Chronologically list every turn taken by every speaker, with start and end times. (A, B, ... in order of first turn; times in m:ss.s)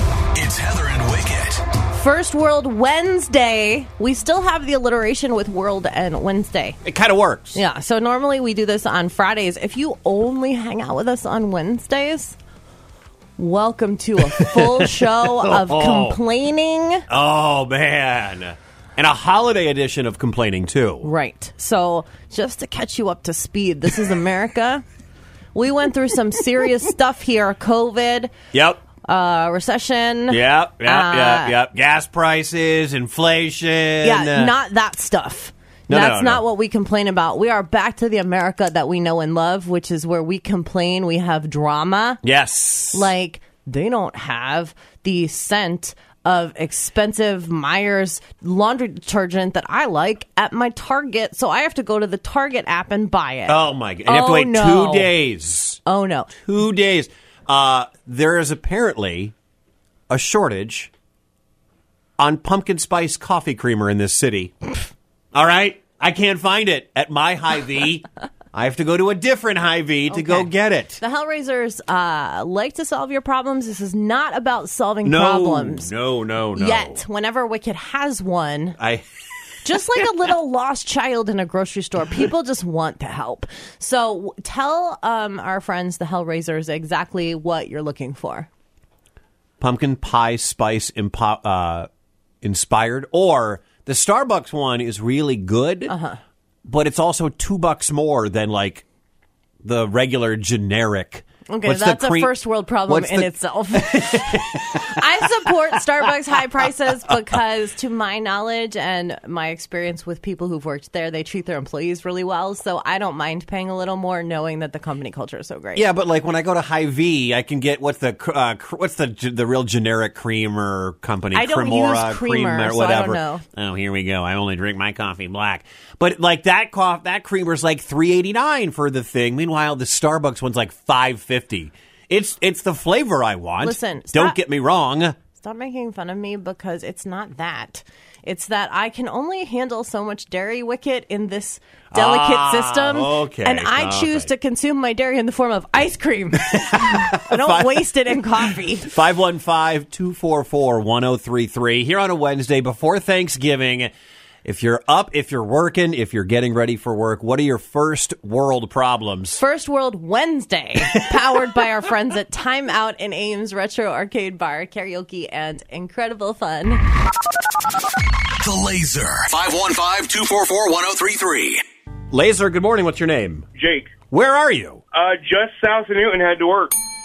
0:00.3-0:01.6 A
0:01.9-0:06.8 B
0:06.8-0:07.6 C
0:07.5-0:12.4 B
0:13.4-0:17.1 B
0:14.3-0:16.2 C
0:17.1-0:21.1 C
0:21.0-0:24.8 B
0:25.6-0:28.3 B
0:28.5-0:28.8 C
0:29.0-0:31.6 B
0:30.3-0:34.5 C
0:34.0-0:42.2 B
0:35.9-0:36.4 C
0:42.2-0:43.1 C
0:42.9-0:55.1 B
0:53.5-0:55.8 C
0:55.9-0:56.3 B
0:56.3-0:59.3 C
1:00.1-1:00.9 C
1:02.2-1:04.7 C
1:05.3-1:11.0 C
1:10.1-1:10.5 B
1:11.0-1:15.9 B
1:15.0-1:17.0 C
1:16.6-1:18.8 B
1:18.8-1:19.1 C
1:19.6-1:28.5 B
1:29.6-1:31.9 C
1:32.4-1:35.9 C
1:35.9-1:36.2 B
1:36.6-1:38.8 C
1:39.6-1:45.0 C
1:41.5-1:55.9 B
1:55.8-2:15.2 C
2:01.3-2:03.4 B
2:13.6-2:14.4 B
2:15.3-2:28.9 B
2:21.9-2:24.3 C
2:26.4-2:28.1 C
2:28.8-2:33.9 C
2:34.4-2:39.4 C
2:39.4-2:46.8 B
2:48.4-2:51.6 A
2:52.1-2:53.5 C
2:53.6-2:53.9 D
2:54.1-2:54.8 C
2:54.9-2:56.8 D